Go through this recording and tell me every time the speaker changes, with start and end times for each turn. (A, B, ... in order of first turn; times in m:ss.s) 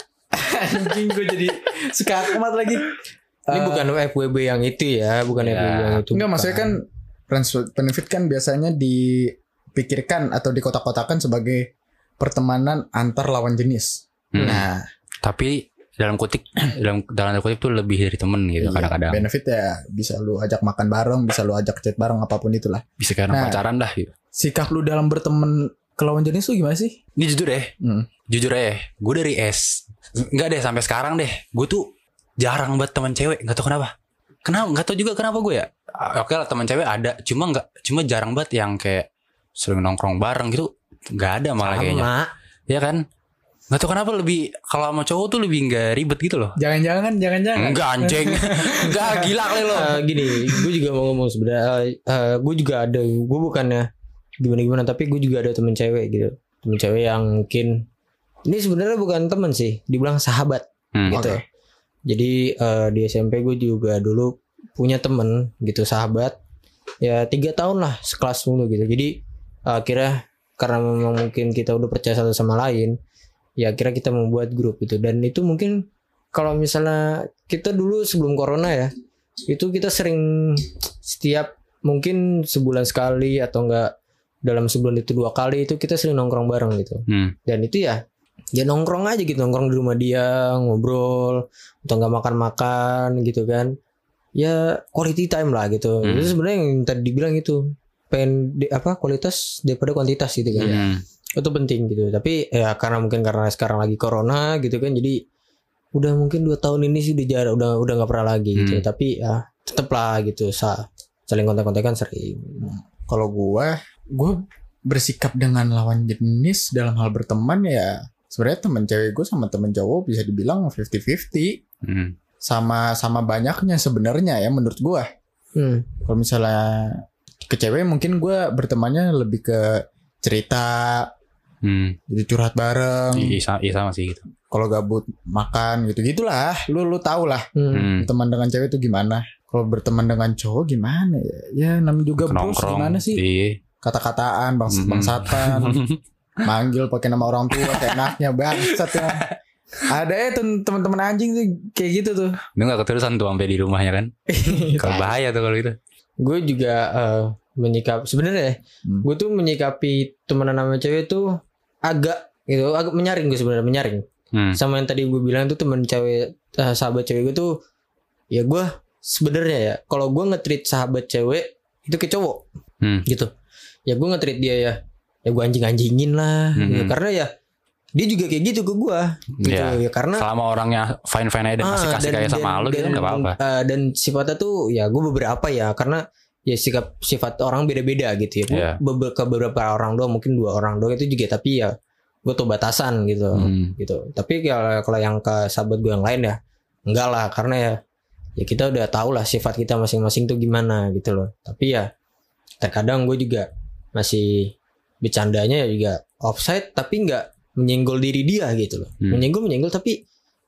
0:00.3-0:02.9 A
0:03.5-0:03.9 A
0:03.5-0:06.7 B
0:05.4-0:06.0 C
0:06.1-0:14.8 A
0:14.3-0:14.6 C
0:15.2-0:19.3 C
0:18.6-0:23.6 A
0:23.0-0:24.1 C
0:24.4-0:27.0 A
0:27.2-0:27.7 C
0:27.8-0:28.1 A
0:28.3-0:31.8 C
0:32.4-0:33.9 C
0:34.4-0:39.1 C
0:39.6-0:42.1 C
0:41.6-0:42.3 B
0:42.7-0:43.0 C
0:43.7-0:46.6 C
0:46.6-0:49.8 A
0:47.6-0:50.0 C
0:49.6-0:53.8 B
0:54.4-0:57.8 B
0:58.5-1:01.4 B
1:00.9-1:01.3 C
1:01.1-1:01.4 A
1:02.1-1:06.4 B
1:07.0-1:09.1 B
1:09.7-1:12.9 B
1:13.6-1:18.9 B
1:19.5-1:23.9 B
1:24.4-1:28.0 B
1:27.1-1:27.3 C
1:28.5-1:33.7 B
1:34.4-1:40.8 B
1:36.0-1:36.4 C
1:40.6-1:40.8 A
1:40.6-1:41.0 C
1:41.4-1:45.2 B
1:45.9-1:52.7 B
1:48.6-1:48.8 C
1:52.6-2:01.6 A
2:01.8-2:02.1 C
2:02.4-2:05.1 A
2:05.6-2:05.9 B
2:06.0-2:11.1 A
2:11.6-2:12.0 C
2:12.1-2:13.4 A
2:13.1-2:14.2 C
2:14.5-2:17.5 A
2:17.6-2:17.9 B
2:17.7-2:18.1 C
2:18.0-2:23.2 A
2:22.3-2:23.5 C
2:23.8-2:25.8 A
2:24.7-2:26.0 C
2:26.4-2:29.3 A
2:27.6-2:28.0 C
2:28.6-2:29.3 C
2:29.9-2:32.3 A
2:32.6-2:34.1 C
2:34.3-2:35.1 A
2:34.7-2:35.8 C
2:36.2-2:41.2 B
2:41.8-2:44.0 B
2:44.5-2:47.5 B
2:48.3-2:52.4 B
2:53.0-2:53.3 B
2:53.9-2:57.3 B
2:56.6-2:56.9 C
2:58.0-3:00.2 B
2:59.4-3:03.4 C
3:01.6-3:11.7 B
3:08.5-3:08.8 C
3:12.2-3:16.4 B
3:13.3-3:13.8 C
3:16.9-3:17.8 B
3:18.4-3:21.9 B
3:22.6-3:24.5 B
3:25.0-3:30.0 B